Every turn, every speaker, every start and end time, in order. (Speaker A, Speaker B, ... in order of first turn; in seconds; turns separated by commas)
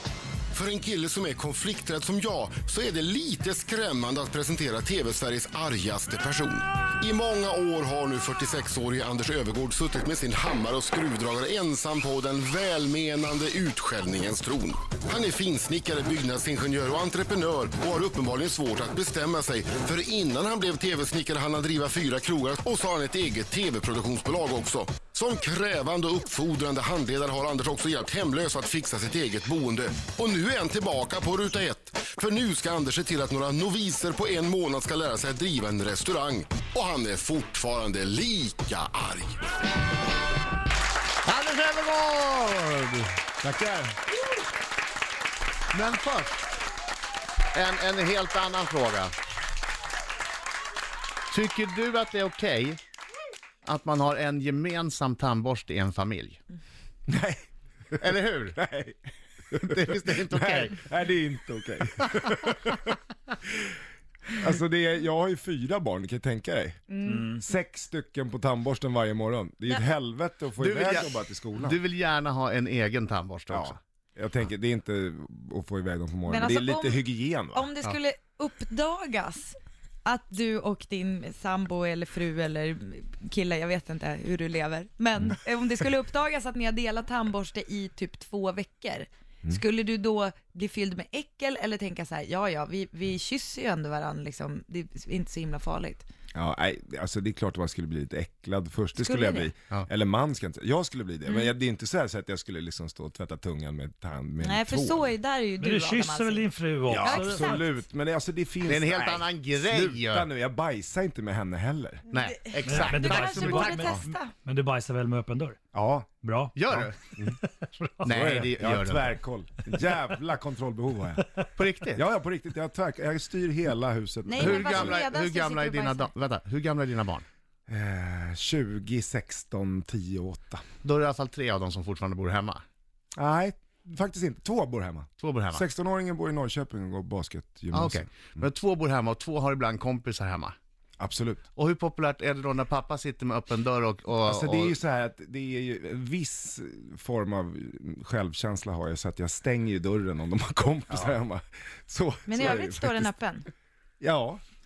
Speaker A: 0.5-39.5, Speaker B: 41.2-43.9, Speaker B: 45.7-46.5, Speaker B: 47.5-49.1, Speaker B: 51.3-52.8, Speaker B: 53.6-56.4, Speaker C: 57.1-59.0, Speaker B: 58.0-58.6, Speaker C: 59.5-63.8, Speaker B: 59.5-60.8, Speaker C: 64.3-66.8, Speaker D: 66.9-67.4, Speaker E: 67.1-67.4, Speaker C: 67.3-71.8, Speaker B: 70.6-73.8, Speaker C: 73.5-77.7, Speaker D: 76.3-96.0, Speaker C: 96.3-105.1, Speaker D: 99.0-99.5, Speaker D: 101.2-101.5, Speaker D: 104.4-107.7, Speaker E: 105.6-107.6, Speaker C: 106.9-112.0, Speaker B: 108.7-110.3, Speaker B: 112.1-113.9, Speaker D: 112.2-114.3, Speaker E: 112.6-115.6, Speaker C: 115.7-116.1, Speaker E: 116.2-117.9, Speaker B: 116.5-117.0, Speaker B: 118.0-119.2, Speaker C: 118.0-121.3, Speaker B: 121.5-122.0, Speaker C: 121.9-125.0, Speaker D: 124.3-126.1, Speaker B: 124.4-127.2, Speaker C: 127.7-130.6, Speaker B: 130.8-132.6, Speaker C: 133.2-138.4, Speaker B: 135.2-135.6, Speaker B: 137.7-140.5, Speaker C: 141.0-141.4, Speaker B: 141.6-144.8, Speaker C: 144.2-153.1, Speaker D: 152.3-153.5, Speaker C: 154.0-154.4